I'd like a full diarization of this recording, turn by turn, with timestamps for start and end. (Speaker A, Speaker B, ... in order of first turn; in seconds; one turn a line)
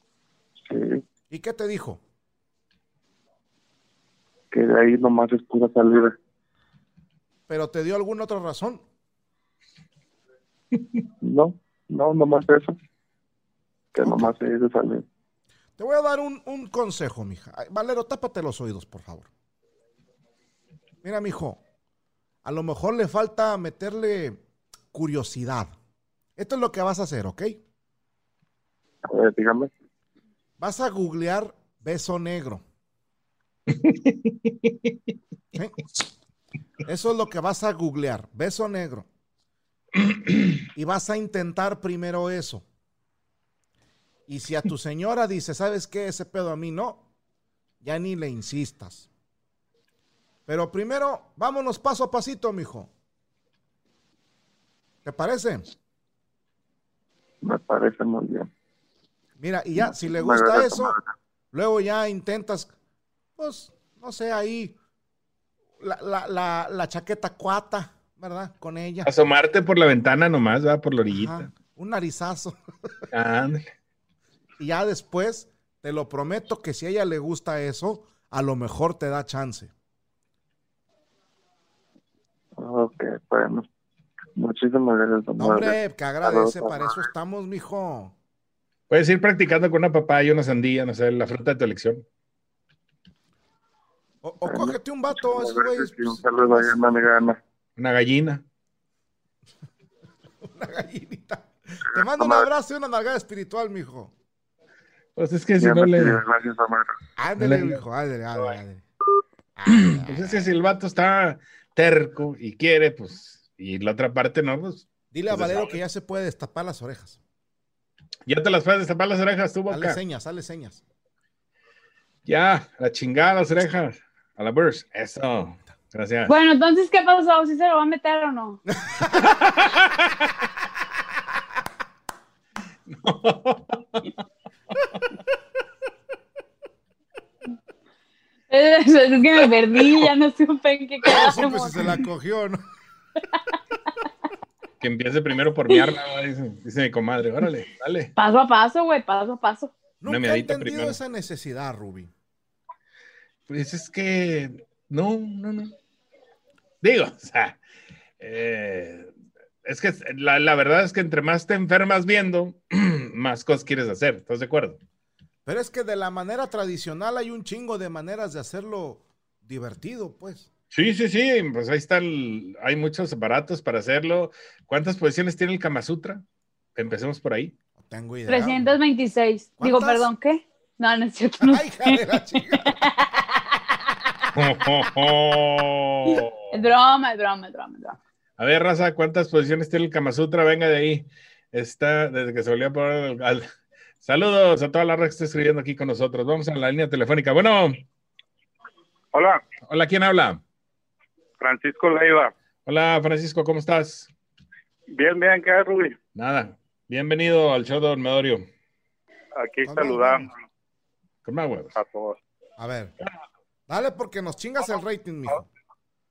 Speaker A: 0.6-1.0
Speaker B: 1.3-2.0
Speaker A: 4.5-6.2
Speaker B: 7.5-8.8
Speaker A: 11.2-12.8
Speaker A: 13.9-15.0
Speaker B: 14.0-14.3
Speaker B: 15.8-19.3
Speaker B: 21.0-21.6
Speaker B: 22.4-24.4
Speaker B: 24.9-25.7
Speaker B: 26.4-27.6
Speaker A: 29.1-29.7
Speaker B: 30.6-32.6
Speaker C: 33.7-34.9
Speaker B: 36.8-39.1
Speaker C: 40.0-40.5
Speaker B: 40.7-42.6
Speaker B: 44.3-47.0
Speaker B: 47.8-49.1
Speaker B: 50.5-52.9
Speaker B: 55.0-55.7
Speaker A: 57.4-58.5
Speaker B: 59.4-61.0
Speaker A: 59.8-61.1
Speaker B: 61.5-62.7
Speaker B: 63.4-64.8
Speaker B: 65.8-69.1
Speaker C: 69.0-71.5
Speaker B: 71.1-73.0
Speaker C: 73.1-73.6
Speaker B: 74.6-79.7
Speaker A: 82.6-83.7
Speaker A: 84.3-87.0
Speaker B: 85.4-88.1
Speaker C: 88.9-92.0
Speaker B: 94.2-96.8
Speaker A: 94.5-97.4
Speaker C: 97.8-98.4
Speaker B: 100.4-104.1
Speaker A: 102.0-102.5
Speaker C: 105.2-106.2
Speaker A: 105.6-107.0
Speaker B: 107.2-108.8
Speaker C: 107.4-107.8
Speaker B: 109.5-110.5
Speaker C: 109.7-115.7
Speaker B: 115.1-117.2
Speaker C: 118.3-120.0
Speaker B: 119.7-120.8
Speaker C: 122.2-126.3
Speaker D: 126.3-128.6
Speaker B: 128.7-129.4
Speaker C: 129.2-130.2
Speaker C: 132.9-134.1
Speaker D: 138.5-142.0
Speaker B: 141.0-142.6
Speaker C: 144.8-148.1
Speaker D: 148.2-149.7
Speaker B: 150.0-152.1
Speaker C: 150.0-151.0
Speaker C: 153.5-155.7
Speaker C: 156.8-157.6
Speaker C: 158.2-159.1
Speaker C: 159.6-164.8
Speaker B: 165.4-170.5
Speaker C: 170.7-176.2
Speaker C: 176.8-177.5
Speaker B: 177.8-178.8
Speaker D: 178.3-182.2
Speaker B: 179.6-180.1
Speaker B: 181.4-182.7
Speaker C: 184.3-186.3
Speaker D: 186.1-188.0
Speaker C: 188.4-193.5
Speaker C: 194.0-197.8
Speaker E: 199.1-199.4
Speaker C: 199.7-200.4
Speaker E: 201.4-202.3
Speaker C: 202.7-204.1
Speaker E: 204.9-206.0
Speaker C: 206.1-208.4
Speaker E: 209.3-210.4
Speaker B: 209.6-210.3
Speaker C: 211.2-211.8
Speaker E: 211.7-212.2
Speaker B: 212.6-212.9
Speaker B: 213.7-215.4